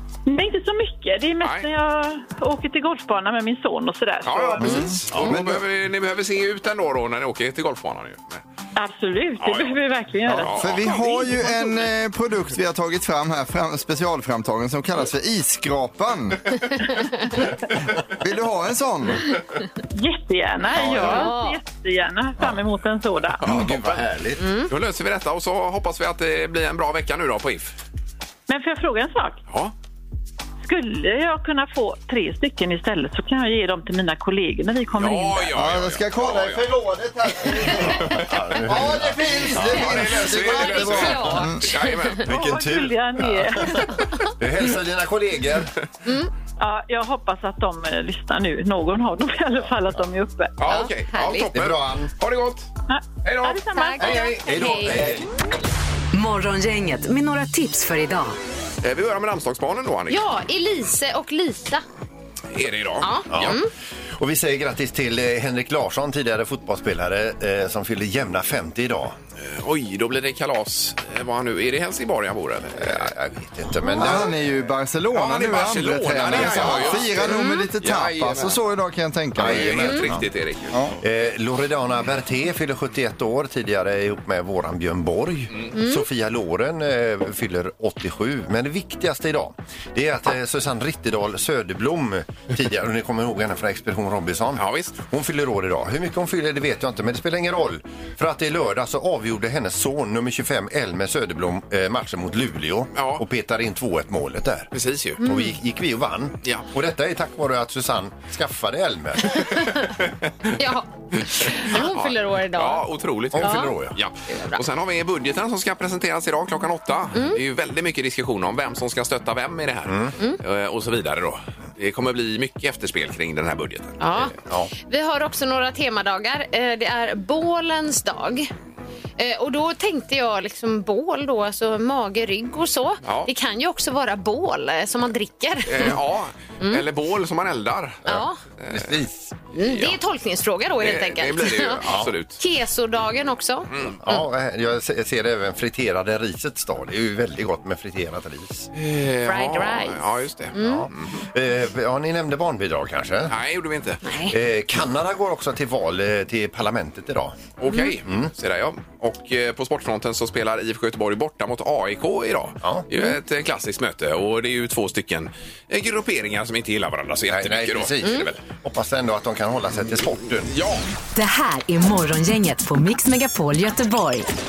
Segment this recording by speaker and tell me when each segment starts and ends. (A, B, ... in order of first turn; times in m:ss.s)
0:00.3-0:05.0 A
0:01.4-0:01.7 B
0:04.2-0:08.4 B
0:04.6-0:05.4 C
0:04.6-0:05.6 D
0:08.8-0:11.3 A
0:09.4-0:09.8 B
0:10.3-0:17.4 D
0:10.4-0:11.0 B
0:18.0-0:19.4 D
0:20.0-0:23.4 A
0:20.7-0:21.3 C
0:20.9-0:21.6 E
0:23.4-0:24.0 B
0:23.4-0:24.4 C
0:24.4-0:24.7 E
0:24.7-0:27.7 B
0:28.5-0:29.4 A
0:30.6-0:35.5 A
0:34.9-0:36.7 B
0:35.5-0:41.7 D
0:37.7-0:41.4 C
0:39.6-0:42.3 B
0:40.0-0:42.1 E
0:42.2-0:45.7 C
0:42.2-0:44.0 A
0:46.0-0:46.3 E
0:46.6-0:50.5 A
0:50.6-0:52.7 B
0:50.7-0:51.5 E
0:51.5-0:52.1 C
0:52.9-0:54.4 A
0:53.2-0:55.0 B
0:53.6-0:54.9 E
0:54.0-0:55.3 C
0:56.1-0:58.4 F
0:58.8-1:00.2 B
1:00.1-1:01.8 E
1:02.5-1:03.6 B
1:03.0-1:03.7 E
1:03.3-1:03.6 C
1:04.1-1:09.2 C
1:09.4-1:13.1 B
1:12.7-1:14.4 C
1:13.8-1:20.0 D
1:15.1-1:18.6 B
1:16.3-1:17.0 C
1:17.2-1:17.7 E
1:19.3-1:20.3 C
1:19.4-1:20.8 B
1:21.0-1:49.6 C
1:25.7-1:26.0 E
1:34.6-1:35.0 B
1:42.9-1:43.2 B
1:44.7-1:45.2 B
1:45.2-1:45.5 E
1:49.8-1:50.5 B
1:50.6-1:52.9 E
1:51.2-2:04.3 B
1:53.3-1:54.0 C
1:53.4-1:53.7 E
1:54.3-1:54.6 E
1:57.1-1:57.4 E
1:59.8-2:00.1 C
2:04.0-2:08.5 E
2:04.4-2:04.7 C
2:09.2-2:16.0 E
2:13.0-2:13.3 B
2:15.6-2:18.1 B
2:16.6-2:16.8 E
2:18.0-2:18.4 E
2:18.0-2:19.3 C
2:18.6-2:19.0 B
2:19.5-2:21.8 E
2:19.6-2:20.0 B
2:20.8-2:22.4 B
2:21.8-2:22.1 C
2:22.4-2:24.2 E
2:23.7-2:24.0 B
2:23.8-2:28.7 C
2:28.7-2:31.1 B
2:29.2-2:30.0 E
2:30.5-2:30.9 E
2:30.6-2:33.4 C
2:33.3-2:34.0 B
2:34.0-2:34.4 E
2:34.3-2:37.4 C
2:37.6-2:48.3 B
2:38.0-2:38.3 C
2:42.6-2:42.9 C
2:47.3-2:50.5 C
2:48.0-2:48.3 E
2:50.5-2:50.8 B
2:51.1-2:54.3 F